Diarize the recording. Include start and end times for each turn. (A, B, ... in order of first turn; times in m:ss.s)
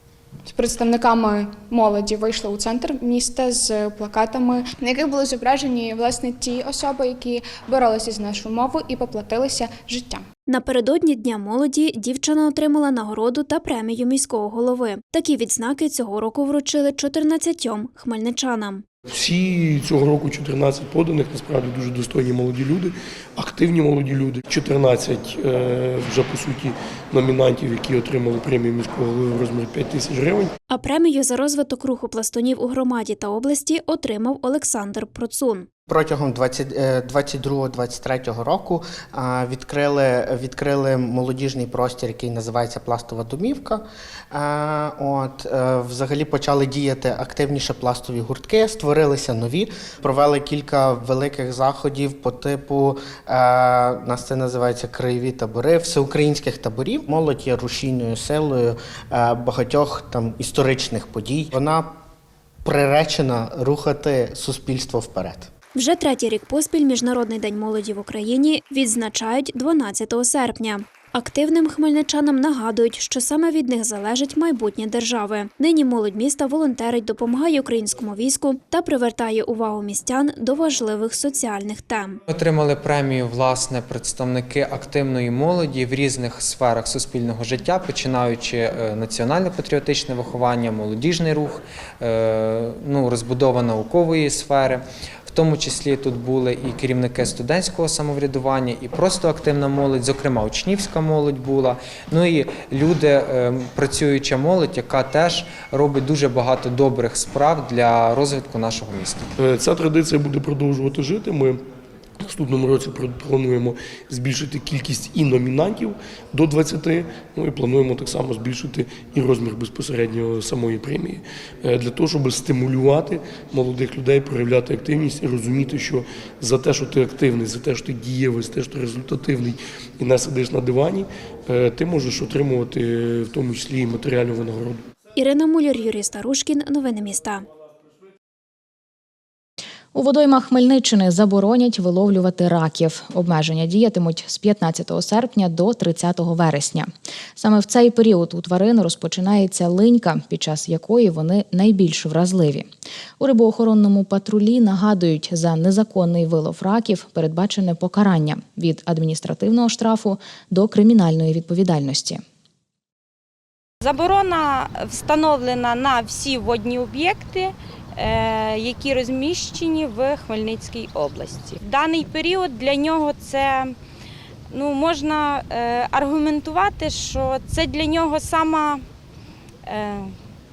0:00.5-0:10.2 A
0:10.5-0:18.8 B
0:19.1-0:30.5 C
0:30.7-0:35.7 B
0:35.9-1:01.9 D
1:02.6-1:05.5 D
1:05.8-1:22.2 B
1:22.3-1:49.3 E
1:49.4-1:51.6 C
1:52.2-2:14.8 C
2:15.2-2:17.4 B
2:19.9-2:32.7 F
2:33.2-2:42.2 F
2:43.8-2:53.8 G
2:54.5-2:58.8 G
2:59.6-3:00.1 G